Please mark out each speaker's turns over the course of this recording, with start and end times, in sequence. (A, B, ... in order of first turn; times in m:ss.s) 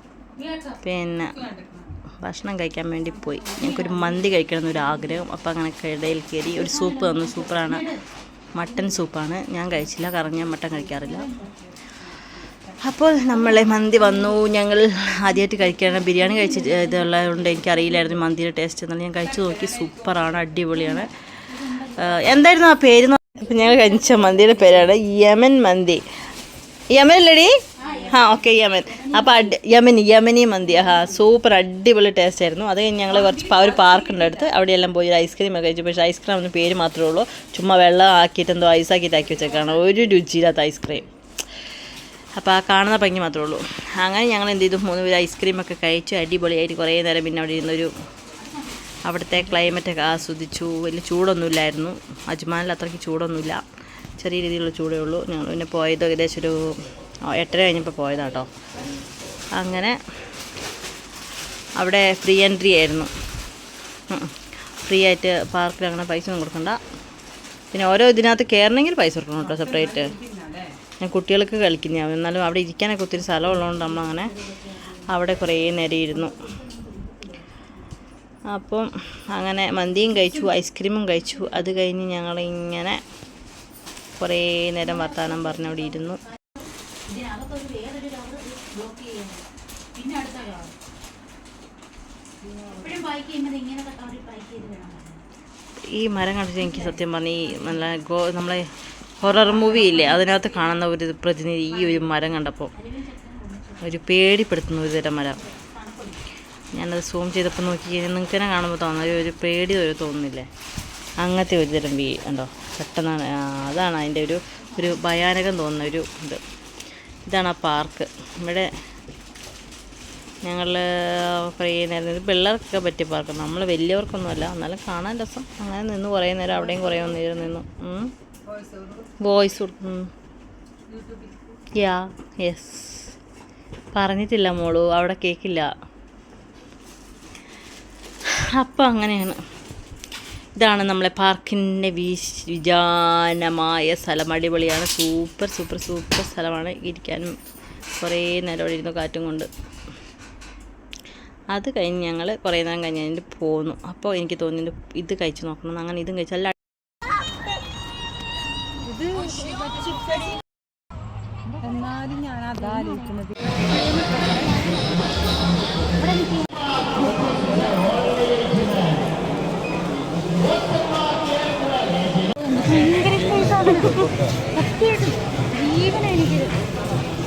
0:00.4-0:00.8 A
0:00.8-0:01.4 B
0:01.4-0:01.8 A
0:02.2-0:07.9 B
0:03.3-0:05.0 A
0:06.6-0:08.0 A
0:08.5-0:11.3 B
0:10.6-0:11.6 A
0:12.2-0:12.6 A
0:12.8-0:26.0 B
0:13.2-0:14.3 A
0:15.4-0:18.1 A
0:19.4-0:19.9 A
0:21.6-0:22.2 A
0:23.8-0:24.2 A
0:26.9-0:41.1 B
0:27.8-0:28.3 A
0:33.1-0:34.4 A
0:42.4-0:47.9 B
0:48.4-0:48.7 A
0:49.0-0:53.6 B
0:54.2-0:58.5 B
0:59.6-1:00.0 B
1:01.8-1:03.1 B
1:04.1-1:06.8 B
1:07.7-1:10.2 B
1:09.5-1:10.7 A
1:11.0-1:14.3 B
1:15.0-1:16.4 B
1:16.3-1:17.2 A
1:18.5-1:23.0 B
1:24.2-1:26.2 B
1:25.0-1:26.0 A
1:27.0-1:30.8 A
1:32.5-1:35.2 A
1:35.9-1:42.7 B
1:39.5-1:40.8 A
1:42.8-1:43.8 A
1:43.8-1:45.4 B
1:45.4-1:46.2 A
1:46.7-1:50.5 B
1:51.2-1:56.4 B
1:57.2-1:58.7 B
2:00.4-2:08.1 B
2:06.7-2:07.4 A
2:08.5-2:09.2 A
2:09.2-2:10.1 B
2:10.9-2:11.4 A
2:11.7-2:13.2 B
2:13.9-2:15.7 B
2:18.4-2:19.4 B
2:20.6-2:27.3 B
2:28.0-2:29.5 B
2:31.5-2:36.6 B
2:38.9-2:40.1 A
2:41.6-2:44.8 A
2:46.0-2:47.9 A
2:52.4-2:56.6 A